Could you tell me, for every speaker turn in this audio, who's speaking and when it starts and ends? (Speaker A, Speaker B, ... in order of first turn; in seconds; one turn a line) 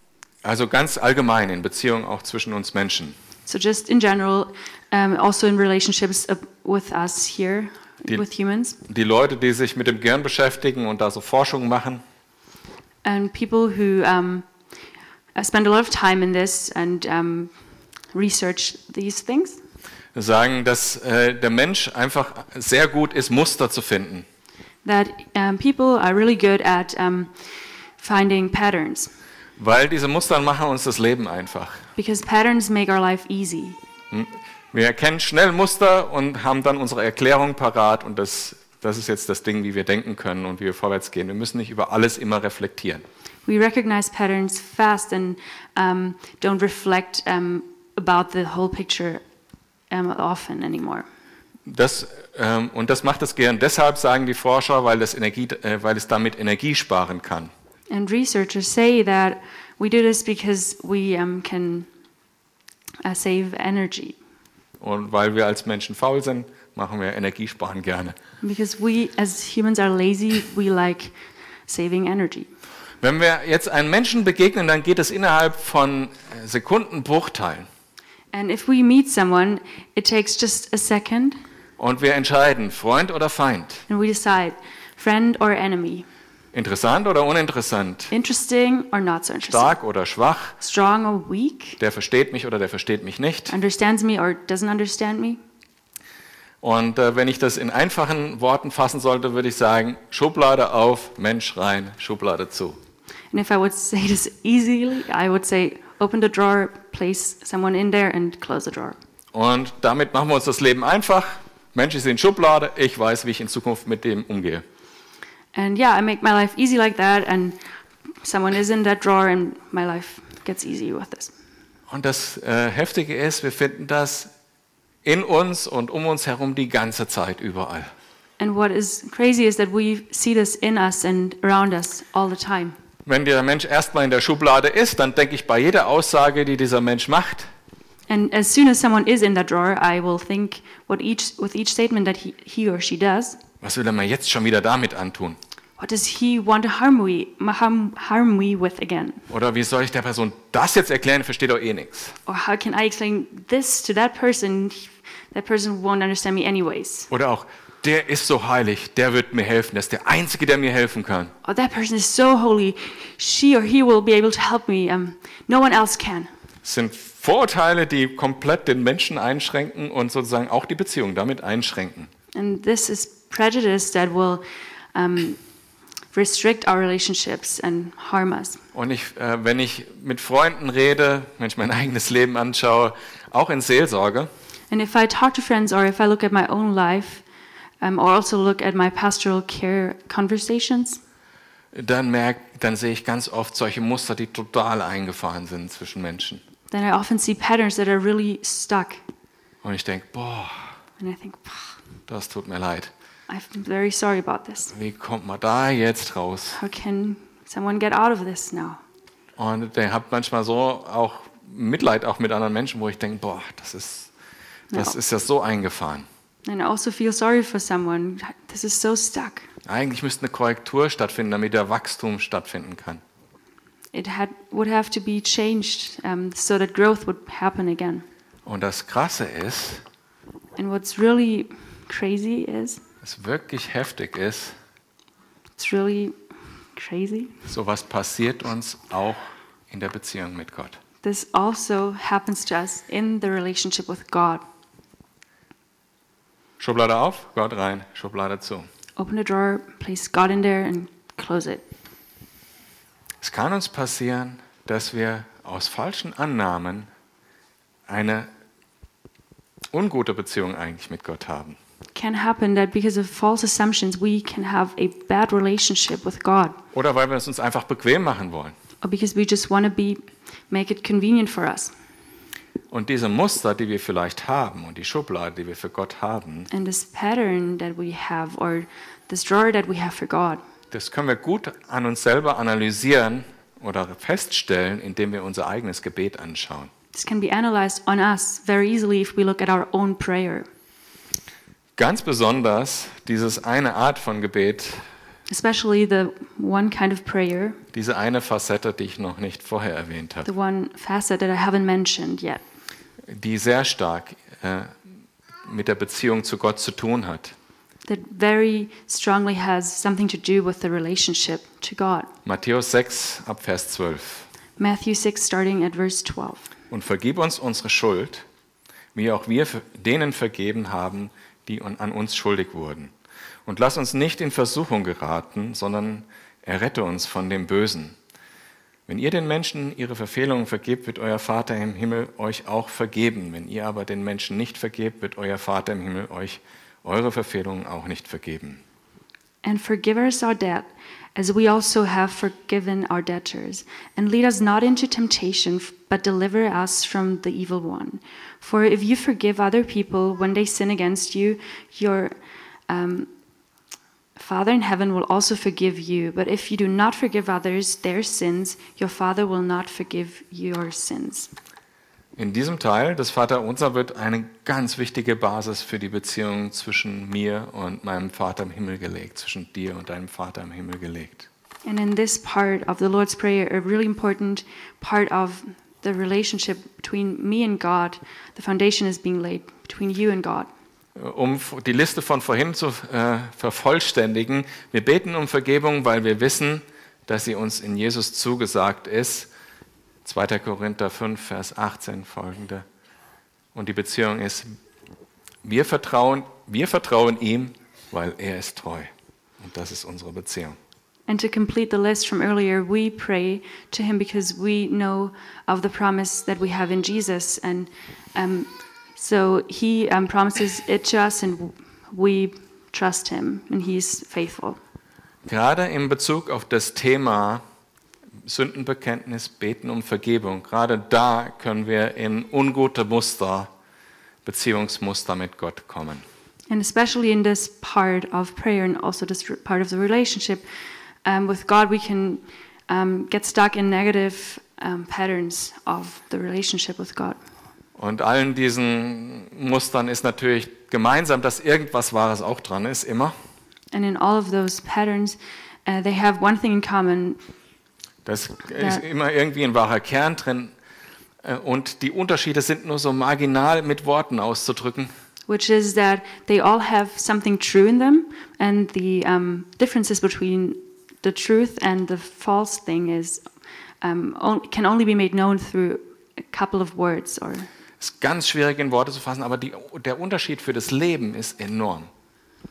Speaker A: 0.4-3.2
Speaker B: 3.5-8.8
Speaker A: 8.9-12.0
Speaker B: 13.1-14.5
Speaker B: 15.3-17.5
Speaker B: 18.1-19.6
Speaker A: 20.1-24.3
Speaker B: 24.9-27.3
Speaker B: 28.0-29.1
Speaker A: 29.6-31.8
Speaker B: 32.0-33.8
Speaker A: 34.1-43.0
Speaker B: 43.5-49.2
Speaker B: 49.9-51.1
Speaker A: 51.7-57.5
Speaker B: 57.9-61.9
Speaker B: 63.0-64.2
Speaker A: 64.8-68.2
Speaker B: 68.4-71.1
Speaker B: 71.7-72.5
Speaker A: 73.0-77.7
Speaker B: 78.3-81.4
Speaker A: 81.8-83.8
Speaker B: 83.9-86.1
Speaker A: 86.5-88.1
Speaker B: 88.1-89.8
Speaker A: 89.4-90.6
Speaker B: 90.6-91.8
Speaker A: 91.8-93.5
Speaker B: 93.5-95.4
Speaker A: 96.6-102.8
Speaker B: 103.3-109.0
Speaker A: 109.3-114.6
Speaker B: 115.5-117.6
Speaker B: 118.2-121.3
Speaker A: 121.9-124.3
Speaker A: 125.0-127.9
Speaker B: 128.4-132.8
Speaker A: 133.1-137.5
Speaker B: 138.1-143.4
Speaker A: 143.6-145.4
Speaker B: 145.8-149.2
Speaker A: 149.3-152.2
Speaker B: 152.3-157.1
Speaker A: 157.1-161.3
Speaker B: 161.4-166.3
Speaker A: 166.6-172.1
Speaker B: 172.3-174.4
Speaker B: 174.9-175.4
Speaker B: 176.1-178.6
Speaker A: 178.7-184.3
Speaker B: 184.7-187.2
Speaker B: 187.8-191.0
Speaker A: 191.7-196.4
Speaker B: 196.7-199.0
Speaker A: 199.6-200.8
Speaker B: 201.0-201.8
Speaker A: 202.1-202.9
Speaker B: 203.3-204.7
Speaker A: 204.7-206.6
Speaker B: 206.5-208.8
Speaker A: 209.4-214.1
Speaker A: 214.7-216.1
Speaker B: 216.5-219.5
Speaker A: 219.7-223.0
Speaker B: 223.9-228.1
Speaker A: 228.5-229.8
Speaker B: 230.6-232.8
Speaker A: 233.0-234.5
Speaker B: 235.6-236.2
Speaker B: 236.8-237.4
Speaker A: 237.5-240.8
Speaker B: 241.0-244.4
Speaker A: 246.6-248.7
Speaker B: 249.0-251.7
Speaker A: 253.2-256.9
Speaker A: 257.9-258.3
Speaker A: 259.7-261.6
Speaker B: 261.9-266.6
Speaker A: 266.7-268.6
Speaker B: 268.8-271.7
Speaker A: 272.7-276.5
Speaker B: 276.5-280.4
Speaker A: 280.7-286.7
Speaker B: 286.9-290.5
Speaker A: 291.8-294.8
Speaker B: 295.3-297.6
Speaker A: 297.7-300.3
Speaker B: 300.2-302.4
Speaker A: 303.1-304.8
Speaker A: 305.4-307.4
Speaker B: 307.9-312.1
Speaker A: 312.3-314.3
Speaker B: 314.6-316.5
Speaker A: 316.7-318.2
Speaker A: 318.9-322.9
Speaker A: 323.5-328.0
Speaker A: 328.9-338.6
Speaker B: 339.4-352.1
Speaker B: 352.7-353.1
Speaker B: 354.2-361.3
Speaker A: 362.2-371.3
Speaker B: 371.7-380.5
Speaker A: 381.0-389.3
Speaker A: 390.1-392.6
Speaker A: 393.6-394.5
Speaker A: 395.4-400.6
Speaker B: 401.1-414.6
Speaker A: 415.3-417.4
Speaker A: 418.2-423.5
Speaker A: 424.2-426.1
Speaker B: 426.5-430.4
Speaker B: 431.1-437.2
Speaker A: 437.8-443.1
Speaker B: 443.7-447.2
Speaker A: 448.1-450.5
Speaker A: 451.2-454.9
Speaker B: 455.3-463.2
Speaker B: 463.8-467.5
Speaker A: 467.8-471.9